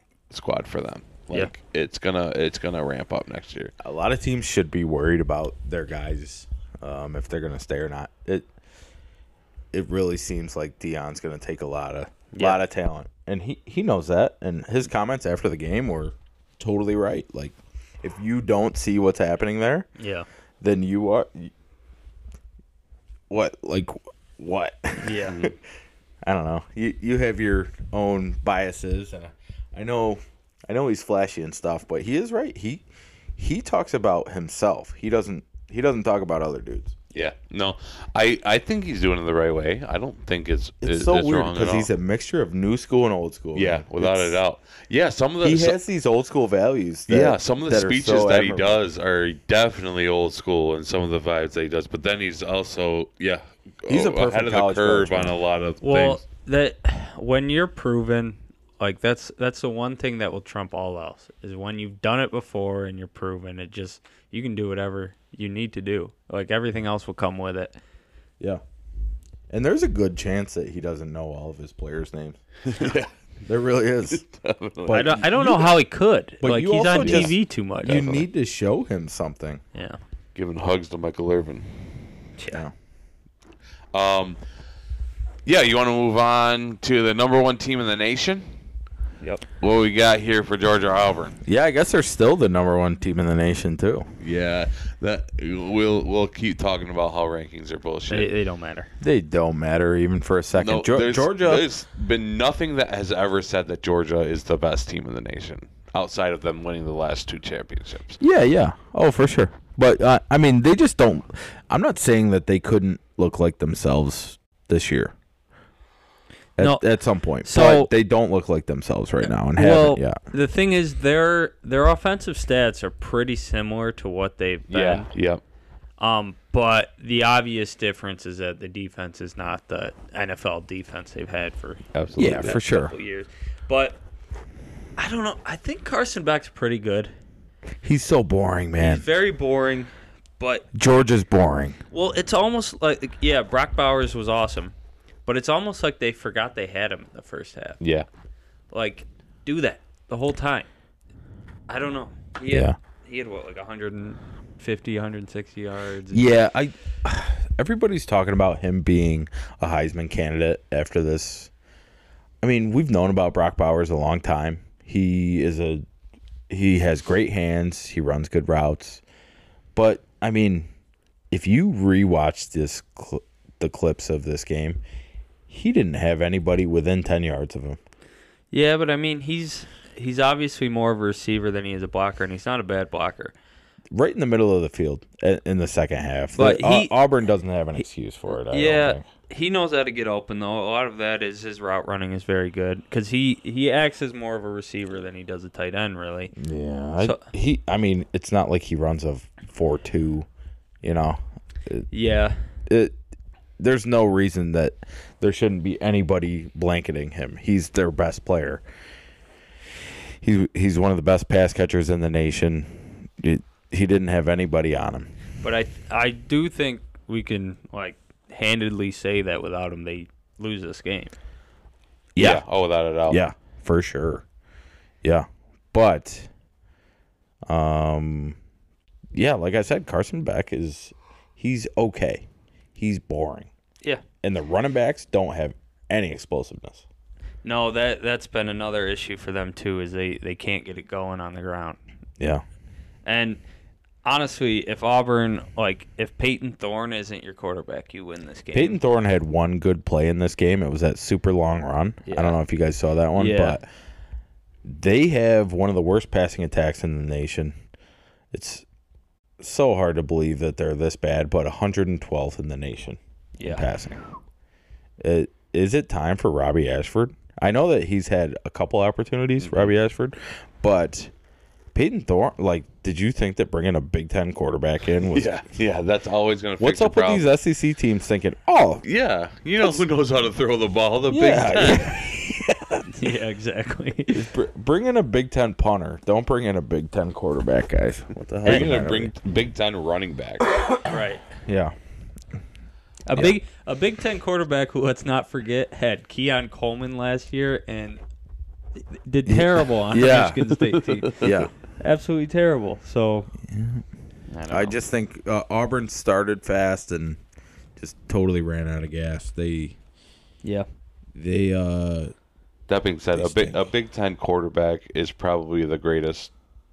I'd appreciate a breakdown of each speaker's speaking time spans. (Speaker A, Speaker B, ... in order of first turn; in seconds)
Speaker A: 0.3-3.7, 25.3-25.5, 37.1-41.9, 43.5-45.8, 47.1-56.2, 72.7-73.1, 74.1-75.2, 77.0-77.3, 80.3-81.7, 83.9-84.4, 85.5-88.5, 89.6-91.4, 94.2-98.3, 100.5-108.2, 124.7-125.4, 131.9-132.6, 147.8-148.1, 222.2-223.2, 269.4-269.7, 275.1-277.3, 278.8-282.0, 288.4-290.4, 300.8-301.3, 312.7-316.3
Speaker B: 3.8-8.5, 9.7-19.9, 20.6-21.5, 23.3-25.6, 26.2-32.9, 33.4-37.0, 40.8-44.4, 45.4-48.8, 53.9-55.4, 69.5-72.4, 73.4-74.2, 74.8-75.7, 76.4-79.6, 91.5-94.1, 99.0-101.7, 108.2-115.2, 116.6-120.2, 132.2-132.9, 137.8-139.1, 140.7-141.8, 152.5-152.8, 156.1-161.5, 162.4-165.8, 166.5-169.0, 169.8-170.7, 171.3-174.8, 175.5-177.8, 183.9-189.1, 196.4-200.3, 200.8-201.9, 202.7-203.0, 203.6-208.6, 210.2-215.1, 222.2-222.4, 223.1-224.2, 225.0-226.3, 227.5-228.4, 229.1-233.5, 234.2-236.8, 242.2-242.4, 248.5-253.7, 254.7-257.6, 258.3-258.6, 259.4-264.0, 265.0-271.1, 271.7-275.3, 276.6-278.8, 281.1-282.8, 284.1-289.1, 291.3-291.8, 299.2-300.5, 301.2-301.5, 303.5-303.8, 304.5-307.2, 307.8-309.8, 311.1-312.1, 313.1-313.6
Speaker C: 12.3-12.6, 20.0-20.3, 25.0-25.4, 55.8-67.8, 74.9-78.2, 82.4-82.6, 98.1-98.9, 116.6-116.8, 117.4-117.9, 119.3-125.1, 126.0-134.0, 135.0-137.1, 138.8-140.7, 141.9-144.7, 145.3-147.8, 148.7-150.7, 151.7-156.3, 178.5-183.4, 186.4-186.9, 188.3-196.3, 201.9-202.4, 215.4-221.1, 237.4-241.8, 243.1-243.4, 244.0-248.8, 252.1-252.4, 253.2-253.6, 263.4-263.7, 281.5-281.9, 282.8-284.2, 290.9-291.2, 293.1-298.0, 298.9-301.3, 301.8-303.3, 304.3-304.8